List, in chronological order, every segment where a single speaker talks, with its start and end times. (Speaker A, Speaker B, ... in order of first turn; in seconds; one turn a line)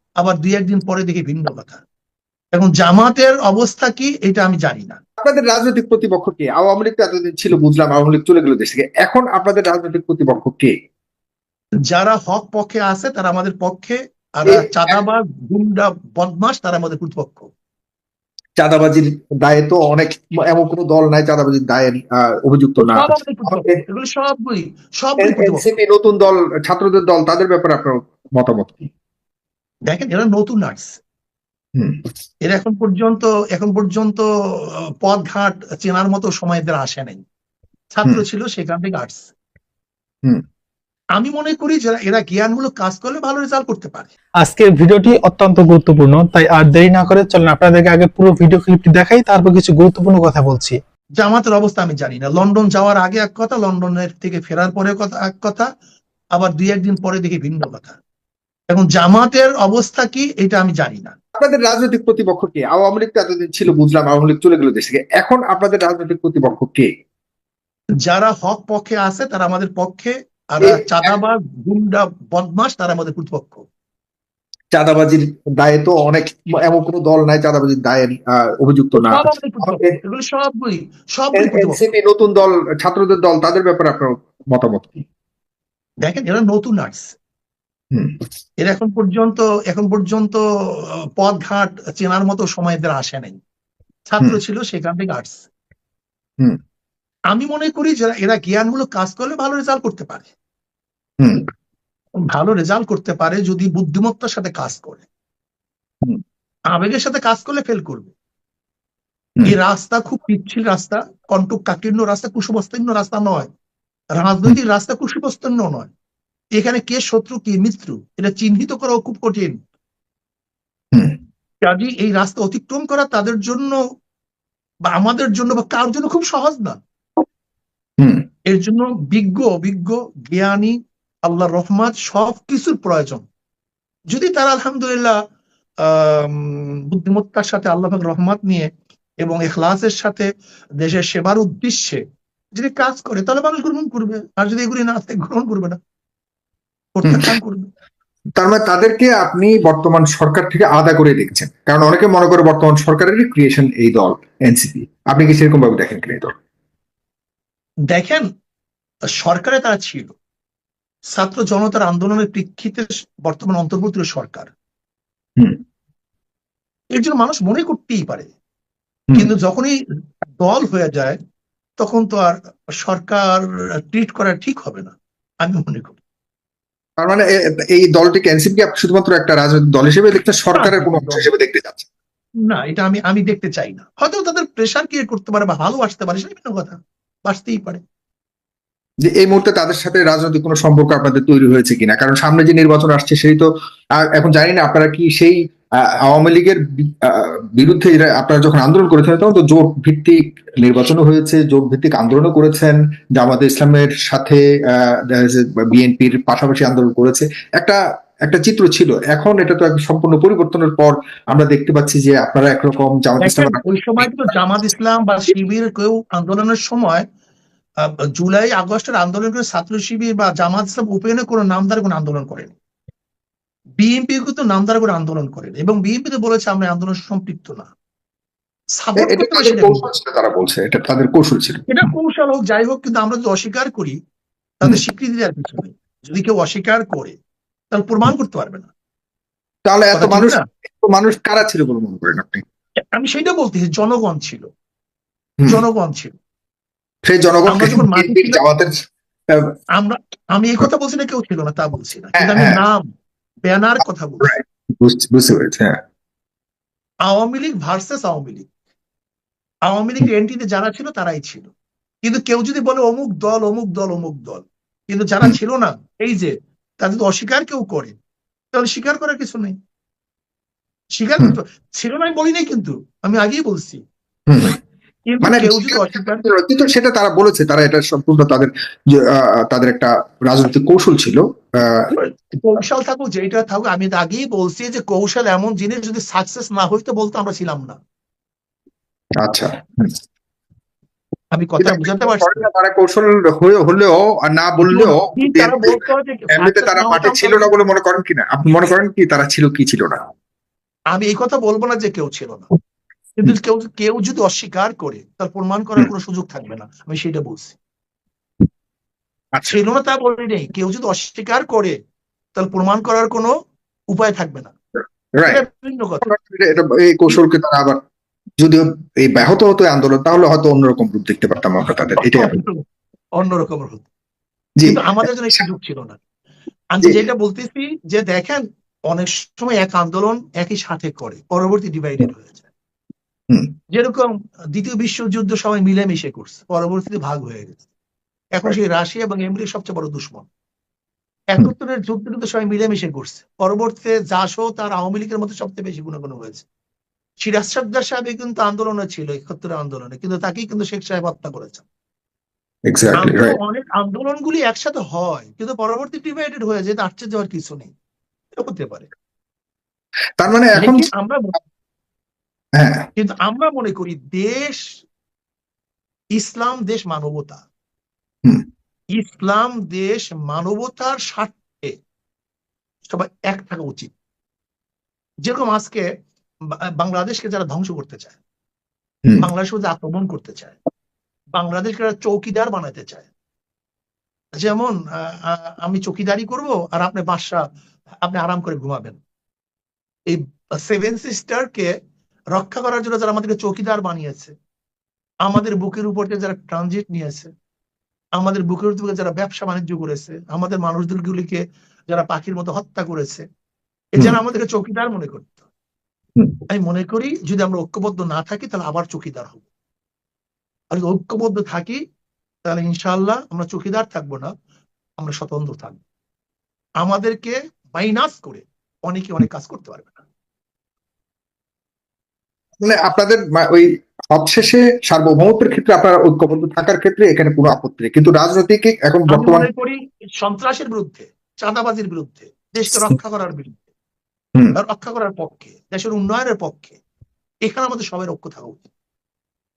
Speaker A: 0.2-1.8
Speaker A: 2.5-5.0
Speaker B: 5.2-10.7
Speaker A: 11.9-17.5
Speaker B: 14.5-14.9
Speaker B: 18.6-23.8
Speaker A: 22.8-25.7
Speaker B: 25.2-28.9
Speaker A: 29.9-31.0
Speaker A: 32.5-37.2
Speaker A: 37.9-39.3
Speaker A: 41.2-44.1
Speaker C: 44.4-50.8
Speaker A: 51.2-55.7
Speaker A: 56.4-58.0
Speaker A: 58.7-61.1
Speaker B: 61.4-66.9
Speaker A: 68.0-73.6
Speaker B: 70.6-71.1
Speaker B: 74.7-80.0
Speaker A: 78.9-81.9
Speaker B: 81.3-85.0
Speaker A: 86.0-87.2
Speaker A: 88.6-93.4
Speaker A: 94.1-95.5
Speaker A: 97.3-100.3
Speaker A: 102.3-105.1
Speaker A: 106.7-108.1
Speaker A: 109.5-113.5
Speaker A: 114.2-115.9
Speaker A: 116.6-119.6
Speaker A: 121.6-123.8
Speaker A: 124.8-126.8
Speaker A: 128.5-133.2
Speaker A: 134.1-135.2
Speaker A: 135.8-138.7
Speaker A: 139.2-140.3
Speaker A: 140.8-142.0
Speaker A: 142.6-145.8
Speaker A: 146.9-147.7
Speaker B: 148.4-156.3
Speaker A: 157.9-158.3
Speaker A: 159.2-160.2
Speaker A: 161.1-164.5
Speaker A: 166.9-168.3
Speaker A: 169.2-169.8
Speaker A: 170.4-171.2
Speaker A: 171.8-176.0
Speaker B: 177.0-181.9
Speaker A: 180.5-181.3
Speaker A: 182.5-187.8
Speaker B: 189.1-193.5
Speaker B: 194.0-195.4
Speaker B: 196.0-214.1
Speaker A: 213.2-217.1
Speaker A: 217.9-222.5
Speaker A: 223.8-227.7
Speaker A: 228.8-229.9
Speaker B: 229.0-231.7
Speaker A: 231.7-234.0
Speaker A: 234.6-237.2
Speaker A: 237.7-238.7
Speaker B: 239.7-242.4
Speaker A: 239.9-240.4
Speaker A: 242.9-244.4
Speaker A: 245.5-246.2
Speaker B: 247.1-248.8
Speaker A: 247.5-248.4
Speaker A: 249.8-252.9
Speaker B: 252.2-252.6
Speaker A: 253.4-254.3
Speaker B: 254.2-255.8
Speaker A: 257.1-258.5
Speaker A: 259.7-261.5
Speaker A: 262.0-267.9
Speaker A: 268.5-269.6
Speaker A: 271.0-273.8
Speaker B: 274.3-274.6
Speaker A: 275.1-276.2
Speaker B: 275.2-281.9
Speaker A: 282.0-287.8
Speaker B: 289.2-290.0
Speaker A: 291.3-292.5
Speaker B: 291.6-295.8
Speaker A: 294.6-297.5
Speaker B: 296.4-300.0
Speaker A: 300.9-302.5
Speaker A: 303.2-307.6
Speaker A: 309.5-311.8
Speaker A: 312.4-313.3
Speaker A: 313.9-314.5
Speaker B: 315.2-315.4
Speaker A: 315.3-316.1
Speaker B: 316.0-317.8
Speaker B: 318.4-322.4
Speaker A: 322.0-322.6
Speaker A: 323.2-323.9
Speaker A: 324.7-326.0
Speaker A: 326.7-332.5
Speaker A: 333.7-337.6
Speaker A: 338.4-340.3
Speaker A: 341.3-346.4
Speaker A: 347.2-351.6
Speaker B: 352.7-353.4
Speaker A: 353.0-357.7
Speaker A: 358.3-358.9
Speaker B: 360.2-360.9
Speaker A: 360.6-361.4
Speaker B: 362.6-362.9
Speaker A: 363.0-364.7
Speaker A: 366.1-367.4
Speaker A: 369.0-371.8
Speaker A: 372.9-373.9
Speaker A: 375.2-375.9
Speaker A: 376.8-378.2
Speaker A: 379.2-380.6
Speaker A: 381.3-383.1
Speaker A: 384.4-387.4
Speaker A: 388.0-389.0
Speaker A: 390.1-391.7
Speaker A: 392.3-394.3
Speaker A: 395.2-397.3
Speaker A: 398.2-403.2
Speaker A: 403.9-405.5
Speaker A: 406.5-409.4
Speaker A: 410.7-411.8
Speaker A: 412.5-414.3
Speaker A: 415.0-415.8
Speaker A: 416.8-420.0
Speaker B: 422.6-429.5
Speaker A: 429.1-433.7
Speaker A: 434.6-436.8
Speaker A: 437.4-438.7